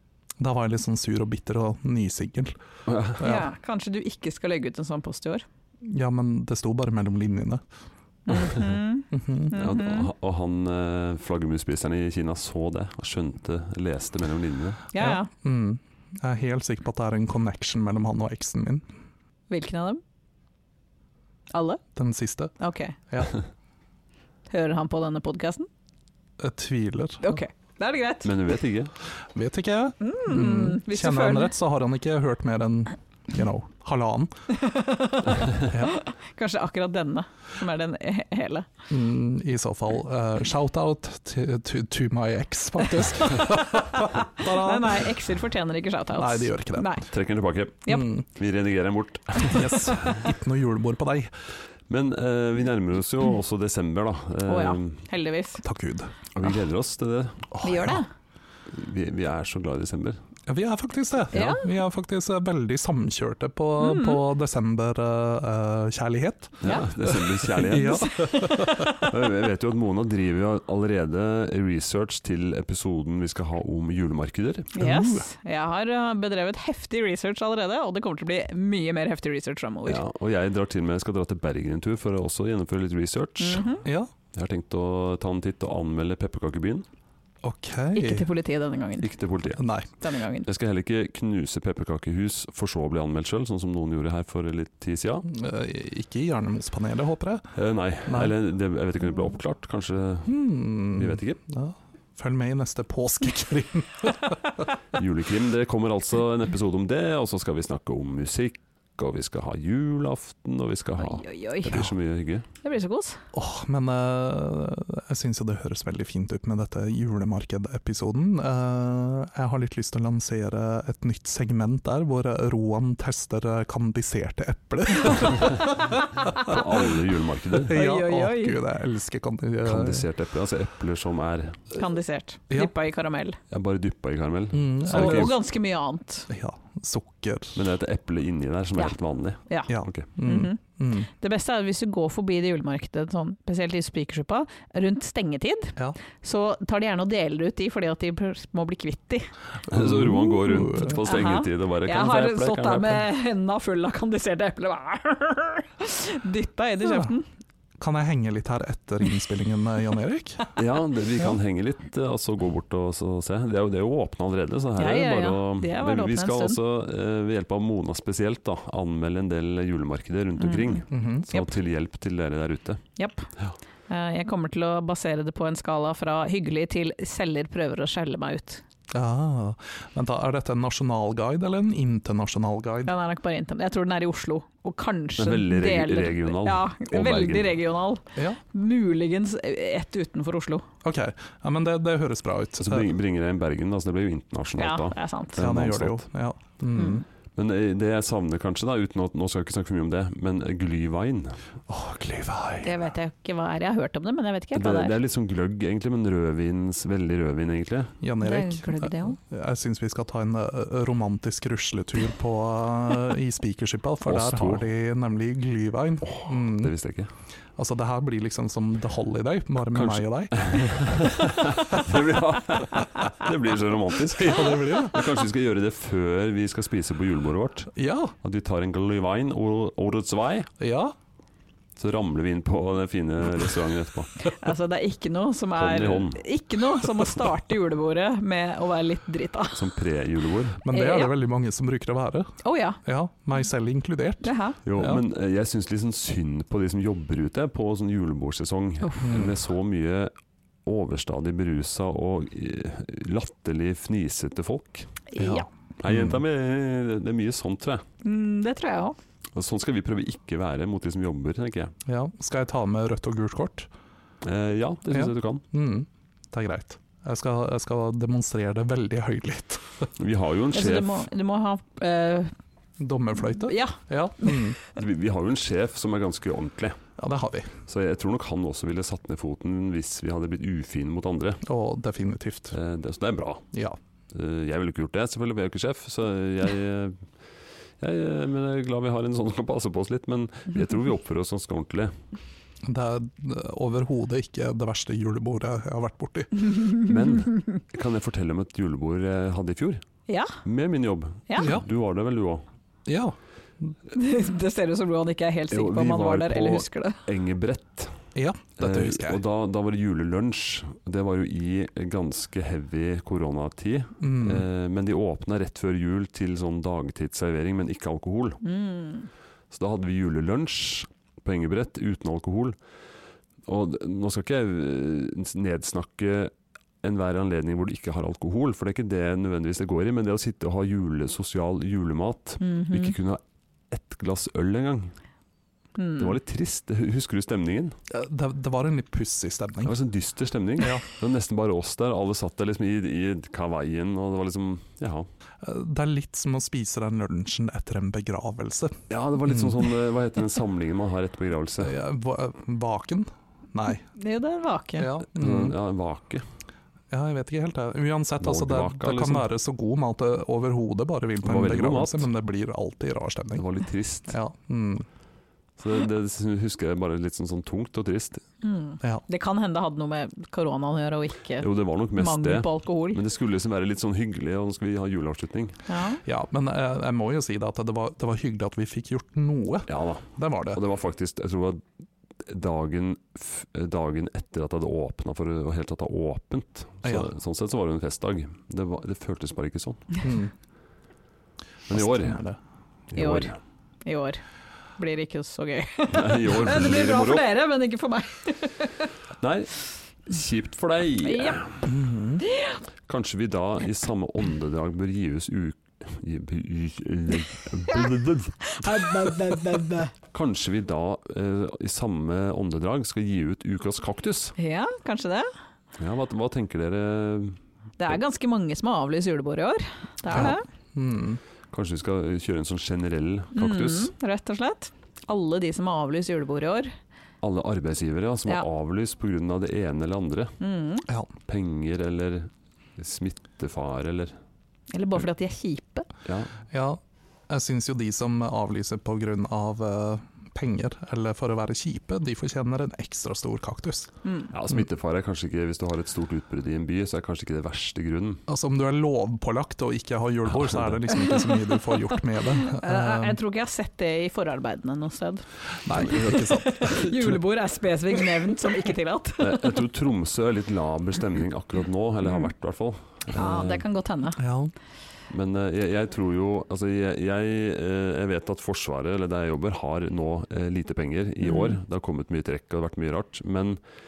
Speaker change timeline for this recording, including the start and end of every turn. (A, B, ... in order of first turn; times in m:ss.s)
0:00.4-0:02.5 A
0:02.9-0:03.2 B
0:03.2-0:03.5 A
0:03.2-0:05.4 C
0:05.8-0:07.6 A
0:08.3-0:10.1 C
0:08.3-0:08.8 B
0:09.1-0:09.5 A
0:09.5-0:14.8 B
0:14.9-0:15.3 C
0:15.0-0:18.9 A
0:19.5-0:20.0 C
0:21.5-0:21.8 C
0:22.0-0:22.5 A
0:22.6-0:23.0 C
0:24.5-0:25.7 C
0:26.4-0:27.4 A
0:27.2-0:28.3 C
0:28.2-0:28.9 B
0:29.3-0:34.3 A
0:30.0-0:31.5 C
0:34.5-0:38.7 C
0:35.7-0:36.0 A
0:38.9-0:45.1 A
0:44.4-0:47.1 C
0:46.2-0:47.0 A
0:47.1-0:50.4 B
0:47.9-0:48.2 A
0:49.5-0:51.3 A
0:51.9-0:55.0 B
0:54.5-0:55.6 C
0:55.6-0:56.1 A
0:56.3-0:57.5 B
0:57.5-0:58.0 A
0:57.6-0:58.1 C
0:58.7-1:00.2 B
1:00.5-1:09.1 A
1:01.3-1:01.6 C
1:03.8-1:04.2 C
1:06.6-1:14.7 B
1:06.6-1:06.9 C
1:07.7-1:09.1 C
1:14.7-1:20.0 C
1:14.8-1:15.3 A
1:19.8-1:23.7 B
1:23.4-1:23.8 C
1:23.8-1:24.1 A
1:24.3-1:26.8 B
1:27.4-1:28.3 A
1:27.9-1:29.1 C
1:29.0-1:29.6 B
1:29.6-1:29.9 A
1:30.0-1:30.5 C
1:30.4-1:35.3 B
1:35.2-1:37.5 A
1:37.5-1:41.4 B
1:38.0-1:38.3 A
1:40.3-1:44.4 A
1:44.9-1:52.4 B
1:51.0-1:51.9 C
1:52.6-1:53.2 C
1:53.3-2:05.8 A
2:06.2-2:06.5 C
2:06.3-2:07.7 B
2:07.6-2:10.0 A
2:07.7-2:08.6 C
2:09.6-2:11.6 B
2:11.7-2:13.4 C
2:13.5-2:15.4 B
2:14.5-2:15.4 A
2:14.9-2:16.3 C
2:16.3-2:17.6 A
2:17.6-2:20.1 B
2:19.7-2:21.1 A
2:20.2-2:29.3 C
2:29.7-2:31.0 A
2:29.7-2:33.0 B
2:31.0-2:37.2 C
2:36.8-2:37.1 A
2:37.8-2:40.5 A
2:40.6-2:52.8 B
2:44.8-2:46.6 C
2:50.4-2:51.5 C
2:50.9-2:51.3 A
2:53.0-2:53.3 C
2:53.9-2:58.6 C
2:58.9-3:02.9 A
3:02.8-3:10.6 C
3:05.2-3:07.6 B
3:10.8-3:12.8 A
3:12.6-3:16.0 B
3:14.6-3:15.4 C
3:15.4-3:17.0 A
3:16.7-3:17.0 C
3:17.4-3:21.4 B
3:21.7-3:22.8 A
3:22.6-3:24.9 C
3:24.5-3:27.9 B
3:28.0-3:36.7 A
3:28.2-3:29.2 C
3:34.0-3:34.7 B
3:36.0-3:37.1 B
3:37.6-3:40.9 A
3:39.7-3:50.5 B
3:44.1-3:45.1 A
3:47.7-3:48.1 A
3:50.6-3:50.9 A
3:51.8-3:54.2 B
3:54.2-3:59.7 C
3:55.6-3:56.2 B
3:59.5-4:00.6 B
4:00.6-4:05.0 A
4:00.7-4:01.1 C
4:02.4-4:02.8 C
4:04.2-4:04.6 C
4:04.6-4:10.1 B
4:08.8-4:09.1 C
4:09.0-4:09.4 A
4:10.6-4:15.0 B
4:15.1-4:15.4 C
4:15.2-4:16.2 A
4:15.8-4:17.8 B
4:18.0-4:19.0 C
4:19.3-4:21.7 B
4:21.8-4:23.7 A
4:24.2-4:25.4 B
4:24.9-4:29.9 A
4:30.0-4:31.0 B
4:30.5-4:32.3 C
4:32.8-4:34.6 A
4:33.4-4:34.4 C
4:34.7-4:36.8 B
4:37.0-4:37.6 A
4:37.7-4:41.4 B
4:41.4-4:42.5 A
4:42.5-4:43.4 B
4:43.5-4:43.8 A
4:44.1-4:47.0 B
4:47.8-4:51.9 B
4:52.6-4:56.6 A
4:56.8-4:59.8 B
5:00.1-5:00.4 C
5:00.4-5:02.4 B
5:01.3-5:01.5 C
5:01.4-5:01.6 A
5:02.8-5:03.7 A
5:03.9-5:07.0 C
5:05.5-5:08.0 B
5:08.1-5:09.2 A
5:08.6-5:18.4 B
5:14.0-5:14.4 A
5:18.4-5:19.1 C
5:19.5-5:22.6 B
5:23.4-5:34.9 B
5:32.4-5:32.9 C
5:35.8-5:36.1 C
5:36.0-5:37.8 B
5:37.9-5:39.7 A
5:39.6-5:45.1 B
5:40.6-5:40.8 A
5:45.4-5:49.5 A
5:48.9-5:51.7 B
5:51.6-5:53.8 A
5:53.9-5:54.9 C
5:54.8-5:55.6 A
5:55.1-5:56.2 B
5:56.9-6:03.4 A
5:58.2-5:59.2 B
6:01.2-6:02.1 B
6:03.4-6:04.2 B
6:04.1-6:04.8 A
6:05.6-6:08.2 B
6:08.4-6:13.0 C
6:11.4-6:15.6 B
6:15.7-6:16.0 C
6:16.0-6:20.6 A
6:19.7-6:21.6 B
6:22.2-6:30.0 B
6:30.0-6:30.3 A
6:31.7-6:32.2 B
6:31.7-6:32.4 A
6:32.9-6:33.3 B
6:33.0-6:33.3 C
6:33.8-6:34.2 C
6:34.8-6:38.9 C
6:35.9-6:37.3 B
6:39.2-6:41.7 B
6:41.0-6:41.4 C
6:41.6-6:42.2 A
6:42.2-6:42.6 C
6:42.9-6:49.1 B
6:48.4-6:49.9 C
6:50.1-6:54.4 B
6:54.4-6:55.3 C
6:55.8-6:58.0 B
6:57.8-7:00.4 C
7:00.1-7:01.2 A
7:01.5-7:03.9 B
7:03.3-7:06.7 C
7:07.2-7:10.4 B
7:10.4-7:10.9 C
7:11.3-7:14.1 B
7:14.7-7:15.9 C
7:16.0-7:16.3 B
7:16.5-7:23.9 A
7:24.0-7:24.3 C
7:24.3-7:28.2 B
7:28.3-7:33.2 A
7:30.3-7:31.0 B
7:31.1-7:31.6 C
7:32.3-7:39.6 C
7:35.6-7:37.2 A
7:39.2-7:43.6 B
7:43.1-7:44.2 C
7:44.2-7:44.5 A
7:45.1-7:53.6 B
7:51.2-7:51.6 C